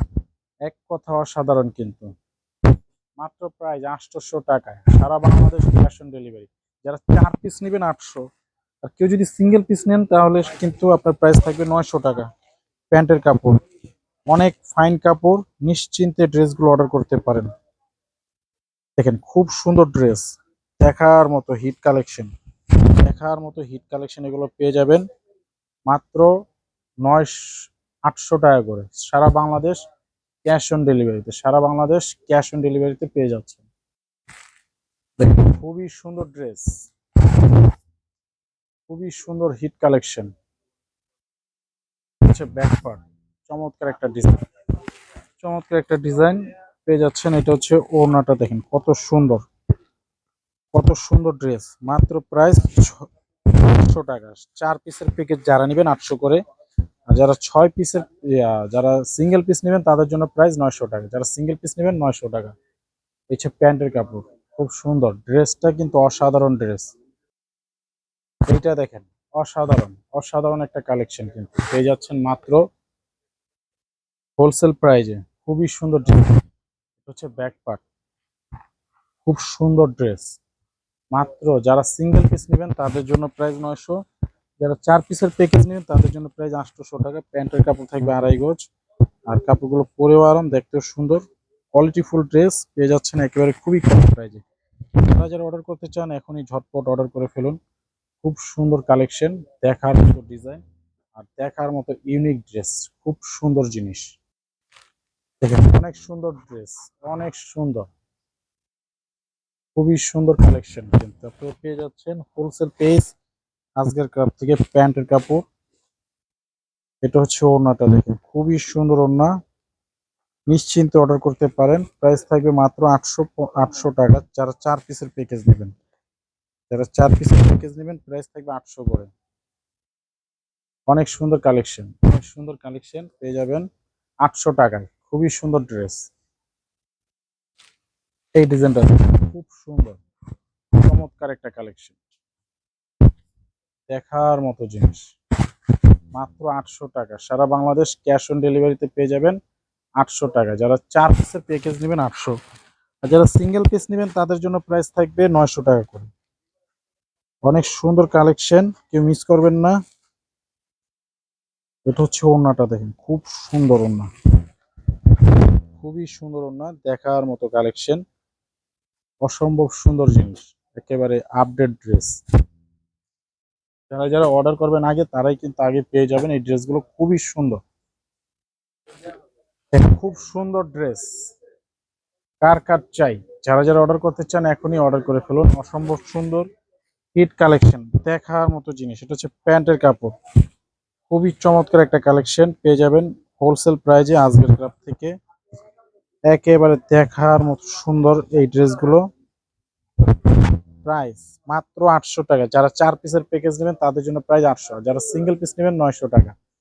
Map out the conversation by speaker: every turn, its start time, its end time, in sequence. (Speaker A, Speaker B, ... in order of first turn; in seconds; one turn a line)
Speaker A: 0.6-2.1
Speaker A: 3.2-8.2
Speaker A: 8.8-12.3
Speaker A: 12.9-13.6
Speaker A: 14.3-17.5
Speaker A: 19.0-22.3
Speaker A: 23.0-25.0
Speaker A: 25.9-26.3
Speaker A: 27.0-29.8
Speaker A: 30.4-33.6
Speaker A: 35.2-36.7
Speaker A: 38.9-40.3
Speaker A: 42.2-44.4
Speaker A: 45.4-49.4
Speaker A: 50.7-56.4
Speaker A: 57.1-62.5
Speaker A: 63.3-66.9
Speaker A: 68.5-72.6
Speaker A: 74.4-76.4
Speaker A: 77.0-77.8
Speaker A: 79.2-80.3
Speaker A: 81.1-84.0
Speaker A: 84.6-88.6
Speaker A: 89.3-94.4
Speaker A: 95.0-97.6
Speaker A: 98.2-100.6
Speaker A: 101.1-104.1
Speaker A: 105.4-107.9
Speaker A: 109.8-113.1
Speaker A: 113.8-115.4
Speaker A: 117.0-119.3
Speaker A: 120.5-125.7
Speaker A: 126.7-129.1
Speaker A: 130.9-133.7
Speaker A: 134.2-136.0
Speaker A: 138.3-140.0
Speaker A: 140.8-142.0
Speaker A: 143.9-145.1
Speaker A: 146.1-149.4
Speaker A: 150.0-152.4
Speaker A: 153.0-156.1
Speaker A: 157.4-159.8
Speaker A: 161.8-164.1
Speaker A: 165.8-168.0
Speaker A: 169.2-172.1
Speaker A: 173.9-177.6
Speaker A: 179.7-181.1
Speaker A: 182.4-186.5
Speaker A: 187.1-190.1
Speaker A: 191.1-195.1
Speaker A: 196.3-199.0
Speaker A: 200.8-206.3